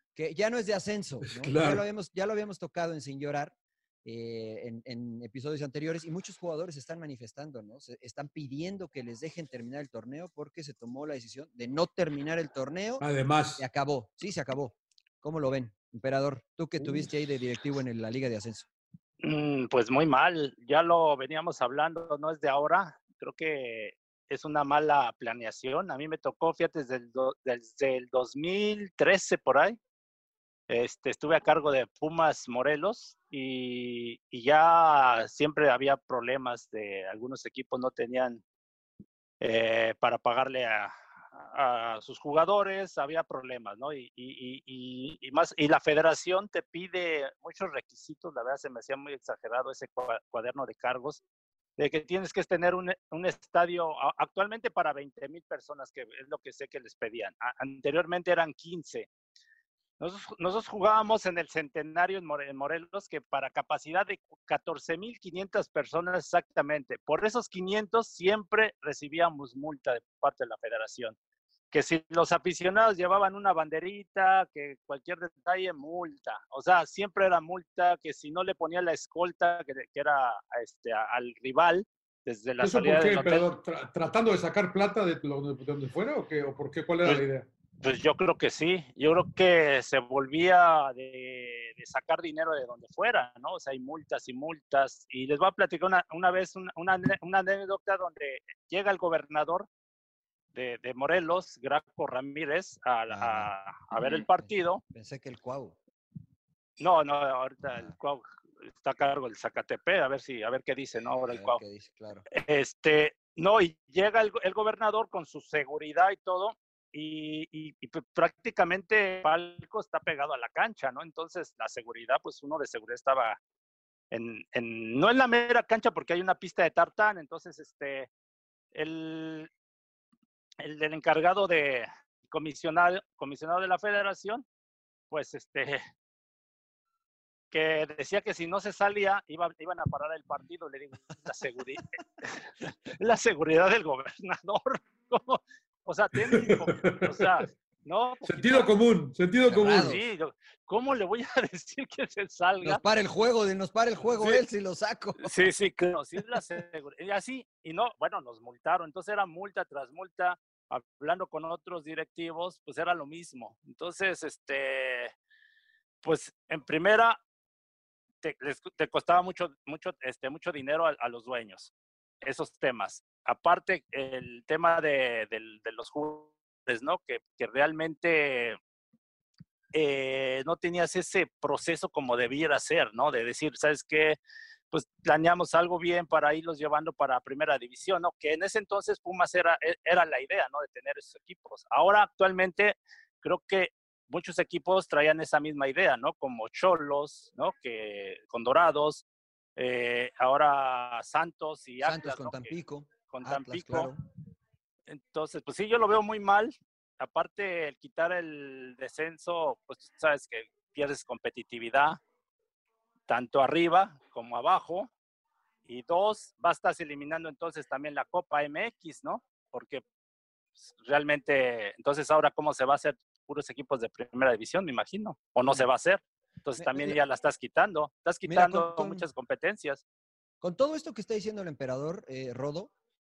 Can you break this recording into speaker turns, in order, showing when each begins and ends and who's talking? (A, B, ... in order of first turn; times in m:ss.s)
0:00.2-0:13.0 A
0:01.2-0:01.8 B
0:13.0-0:13.7 B
0:13.6-0:18.7 A
0:16.8-0:17.1 B
0:19.2-0:29.8 C
0:30.7-0:38.4 C
0:39.4-0:51.2 C
0:51.8-0:59.1 C
1:00.0-1:11.2 C
1:11.7-1:23.5 C
1:22.6-1:27.5 B
1:27.8-1:39.7 C
1:40.5-1:44.8 C
1:43.1-1:45.8 A
1:46.8-1:51.6 C
1:51.3-1:52.2 A
1:52.3-2:03.4 C
2:04.1-2:08.1 C
2:08.7-2:09.5 C
2:10.6-2:14.4 C
2:15.1-2:15.8 C
2:17.5-2:22.4 C
2:22.9-2:28.7 C
2:26.2-2:27.3 B
2:28.2-2:30.0 B
2:29.5-2:30.0 A
2:29.8-2:32.8 C
2:32.6-2:35.4 A
2:35.2-2:45.1 C
2:46.0-2:47.2 C
2:48.2-2:51.7 C
2:52.2-2:58.6 C
2:59.7-3:04.2 C
3:04.7-3:19.0 C
3:19.6-3:22.6 C
3:21.8-3:24.0 A
3:23.1-3:23.9 C
3:24.9-3:32.0 C
3:33.1-3:34.9 C
3:35.7-3:39.8 C
3:40.7-3:49.8 C
3:46.6-3:47.0 A
3:48.3-3:49.1 A
3:50.4-3:52.7 A